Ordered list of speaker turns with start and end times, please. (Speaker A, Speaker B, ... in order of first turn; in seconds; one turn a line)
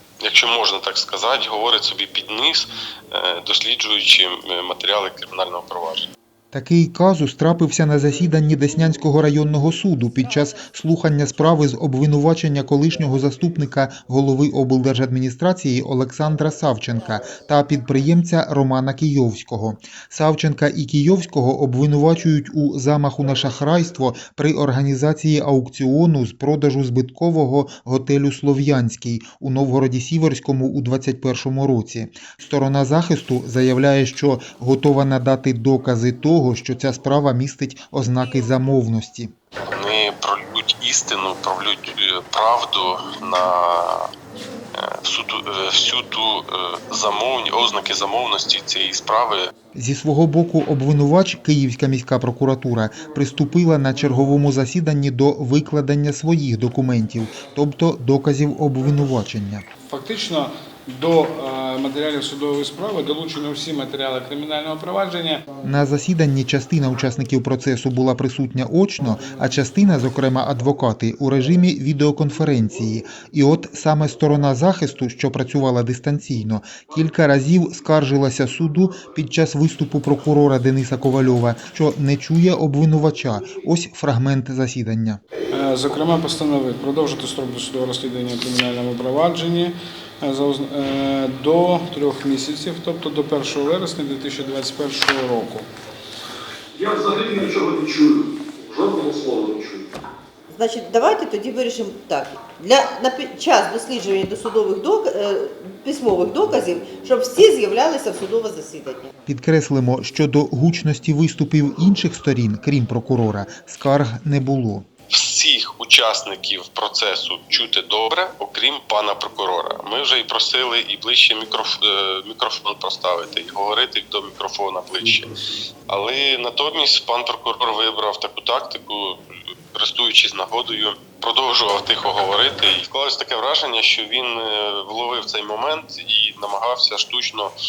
Speaker A: 0.2-6.1
Speaker B: 6.5-39.3
Speaker A: 39.7-44.1
Speaker A: 44.8-49.5
Speaker B: 49.7-59.6
Speaker C: 59.9-65.5
Speaker B: 65.6-85.2
Speaker C: 85.5-95.7
Speaker D: 96.8-99.8
Speaker E: 100.5-109.1
Speaker B: 109.3-114.9
Speaker A: 115.1-125.3
Speaker A: 125.9-129.2
Speaker A: 129.7-137.5